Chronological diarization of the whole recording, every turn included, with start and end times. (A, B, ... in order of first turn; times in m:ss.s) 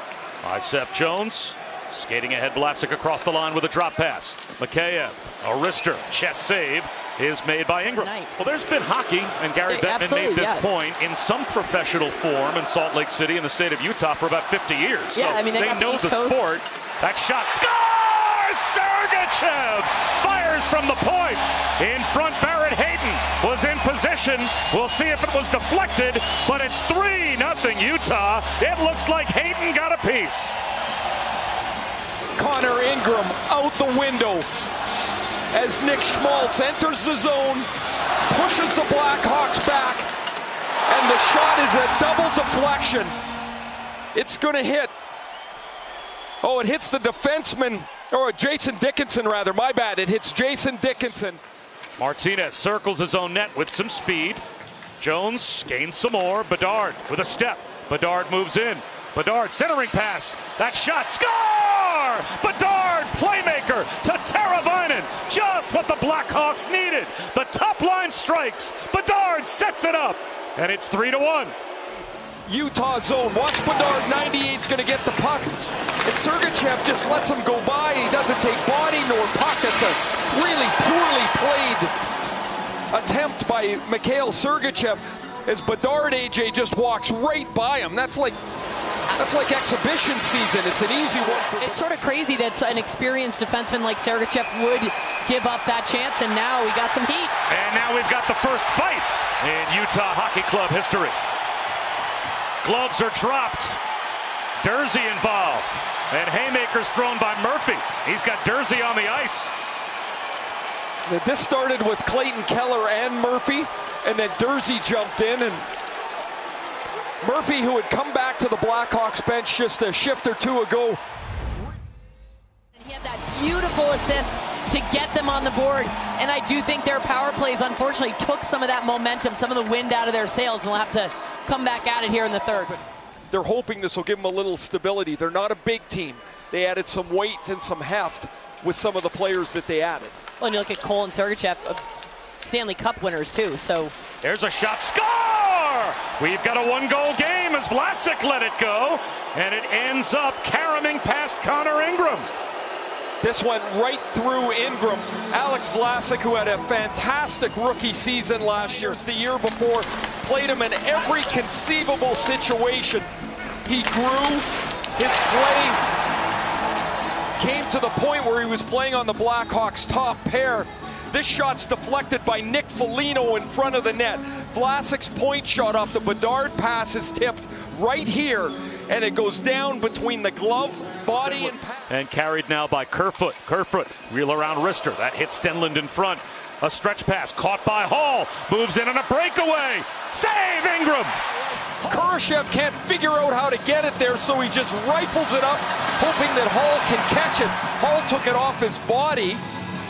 0:00.4-0:30.5 A
0:07.9-0:08.4 B
0:09.7-0:10.7 B
0:15.1-0:16.4 B
0:32.4-0:34.5 C
0:35.5-0:37.7 C
0:38.3-0:40.1 C
0:40.9-0:43.2 C
0:44.1-0:44.9 C
0:46.4-0:51.4 C
0:52.0-0:54.4 A
0:55.0-1:11.6 A
1:12.4-1:21.9 C
1:22.9-1:28.4 C
1:29.1-1:31.8 C
1:31.6-1:37.3 B
1:37.5-1:41.2 A
1:42.6-1:43.8 A
1:44.6-1:49.5 A
1:51.1-1:55.7 C
1:57.2-2:01.0 C
2:02.8-2:12.8 B
2:13.3-2:20.2 C
2:20.4-2:21.8 B
2:22.4-2:23.9 B
2:24.2-2:32.3 A
2:33.2-2:43.1 C
2:43.6-2:45.8 C
2:47.4-3:01.9 C
3:01.9-3:11.2 A
3:11.8-3:12.1 A
3:11.9-3:19.4 C